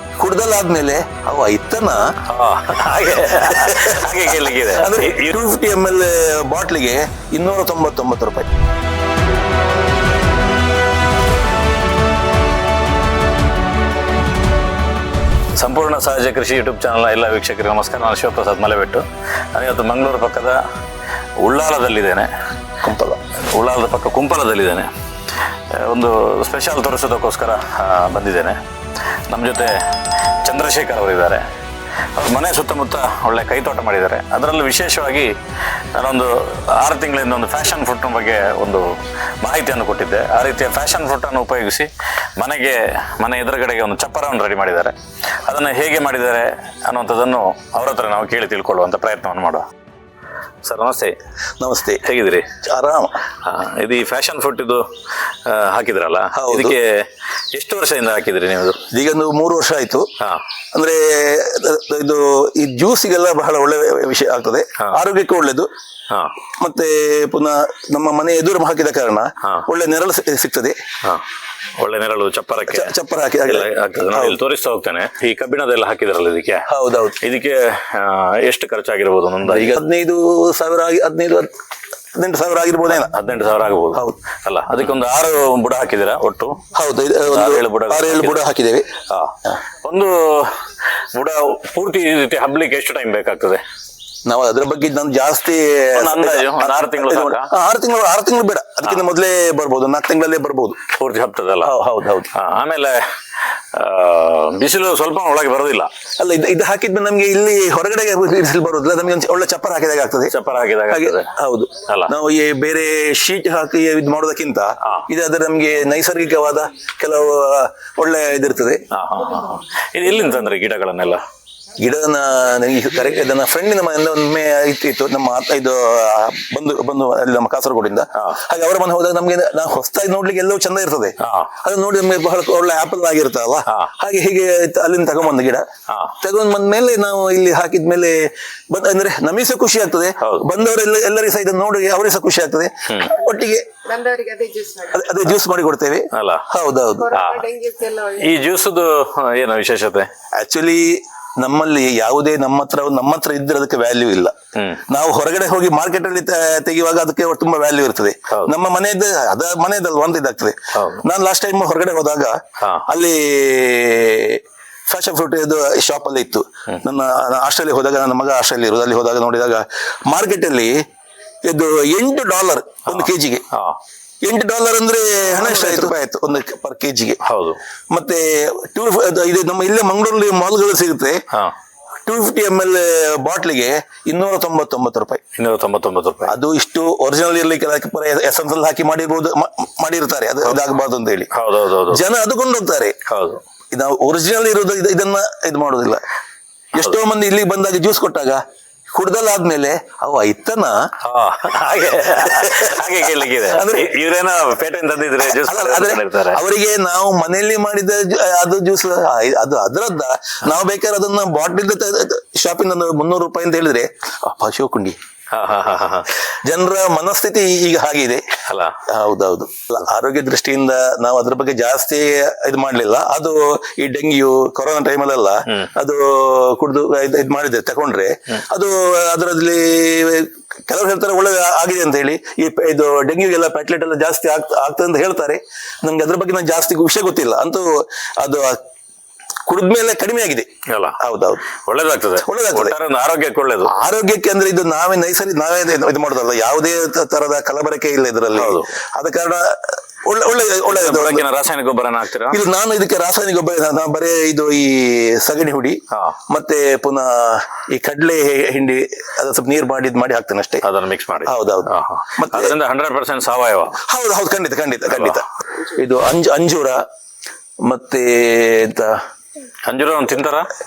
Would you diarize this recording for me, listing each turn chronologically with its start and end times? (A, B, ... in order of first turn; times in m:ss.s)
0:00.2-0:02.1 A
0:02.3-0:05.4 B
0:03.4-0:08.5 A
0:15.6-0:20.6 B
0:21.4-0:22.3 B
0:22.8-0:23.2 A
0:23.5-0:24.9 B
0:25.7-0:28.6 B
0:29.3-0:29.8 B
0:30.4-0:31.4 B
0:32.2-0:35.3 B
0:36.0-0:49.6 B
0:50.6-0:51.2 B
0:51.6-0:52.0 A
0:52.0-0:52.5 B
0:52.6-0:53.2 A
0:53.4-0:54.8 B
0:55.4-0:57.0 B
0:56.3-0:56.8 A
0:57.5-0:58.8 B
0:58.9-1:00.1 A
1:00.7-1:05.7 A
1:06.6-1:10.8 A
1:11.8-1:16.6 B
1:12.7-1:14.4 A
1:16.7-1:17.2 A
1:17.2-1:19.7 B
1:19.4-1:21.5 A
1:22.2-1:23.2 A
1:23.0-1:26.6 B
1:26.7-1:28.9 A
1:27.3-1:28.4 B
1:29.1-1:30.5 B
1:31.1-1:33.6 B
1:34.2-1:40.8 A
1:35.9-1:37.5 B
1:40.9-1:41.7 B
1:41.6-1:42.3 A
1:42.3-1:43.0 B
1:43.7-1:45.9 B
1:46.2-1:50.3 A
1:50.3-1:51.3 B
1:50.9-1:58.8 A
1:51.8-1:52.1 B
1:58.9-2:01.2 B
2:01.8-2:15.6 A
2:11.2-2:11.5 B
2:15.9-2:16.1 B
2:16.2-2:23.7 A
2:23.8-2:24.9 C
2:24.9-2:27.2 A
2:26.1-2:26.4 B
2:27.1-2:27.4 B
2:27.1-2:28.2 C
2:28.2-2:30.1 B
2:30.4-2:34.3 A
2:34.6-2:34.8 B
2:34.9-2:50.8 A
2:40.7-2:41.0 B
2:42.6-2:42.8 B
2:51.4-2:53.4 A
2:52.9-2:53.8 B
2:54.2-2:57.2 A
2:55.4-2:55.9 B
2:57.2-2:57.6 B
2:57.9-3:01.2 A
3:02.0-3:05.2 A
3:05.4-3:06.3 B
3:06.3-3:11.3 A
3:11.3-3:12.0 B
3:11.9-3:13.0 A
3:13.1-3:13.4 B
3:13.7-3:16.0 A
3:16.8-3:18.4 A
3:18.9-3:20.8 A
3:21.0-3:26.4 B
3:22.2-3:23.9 A
3:25.2-3:35.0 A
3:35.3-3:36.1 B
3:36.4-3:38.2 A
3:38.5-3:38.7 B
3:38.9-3:57.7 A
3:58.2-3:58.6 A
3:59.5-4:01.5 A
4:00.7-4:01.0 B
4:01.6-4:03.7 B
4:02.2-4:02.7 A
4:03.6-4:11.2 A
4:08.3-4:08.7 B
4:10.7-4:12.4 B
4:12.3-4:20.6 A
4:15.9-4:16.2 B
4:20.6-4:23.8 B
4:21.2-4:22.5 A
4:23.8-4:26.8 A
4:24.9-4:25.2 B
4:27.6-4:29.0 A
4:29.7-4:30.5 B